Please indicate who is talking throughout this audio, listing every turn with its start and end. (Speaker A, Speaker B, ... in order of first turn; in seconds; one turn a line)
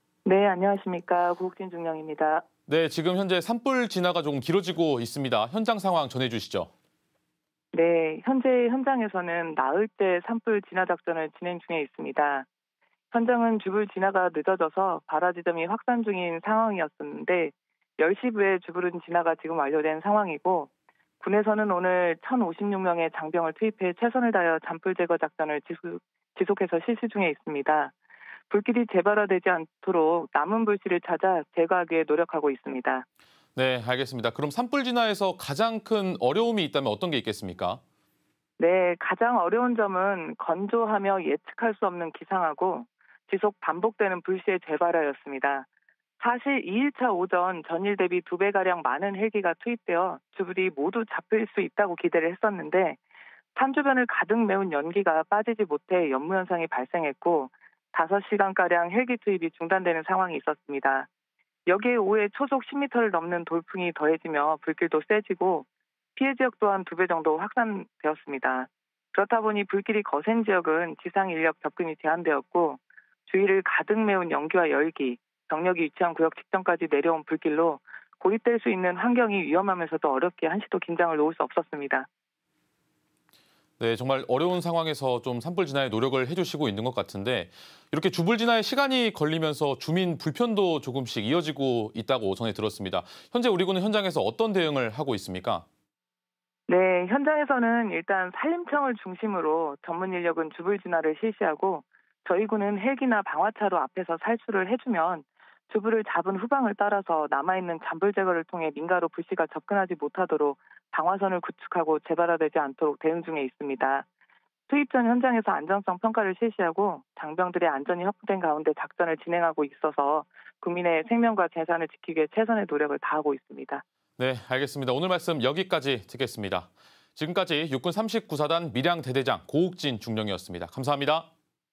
Speaker A: 0.2-2.5
Speaker B: 2.7-6.7
Speaker A: 7.7-12.5
Speaker A: 13.1-20.7
Speaker A: 21.2-27.9
Speaker A: 28.5-33.1
Speaker B: 33.6-37.8
Speaker A: 38.6-45.7
Speaker A: 46.2-53.0
Speaker A: 53.6-61.1
Speaker A: 61.7-82.1
Speaker B: 83.8-95.7
Speaker A: 96.7-114.1
Speaker A: 114.7-123.8
Speaker B: 124.2-131.3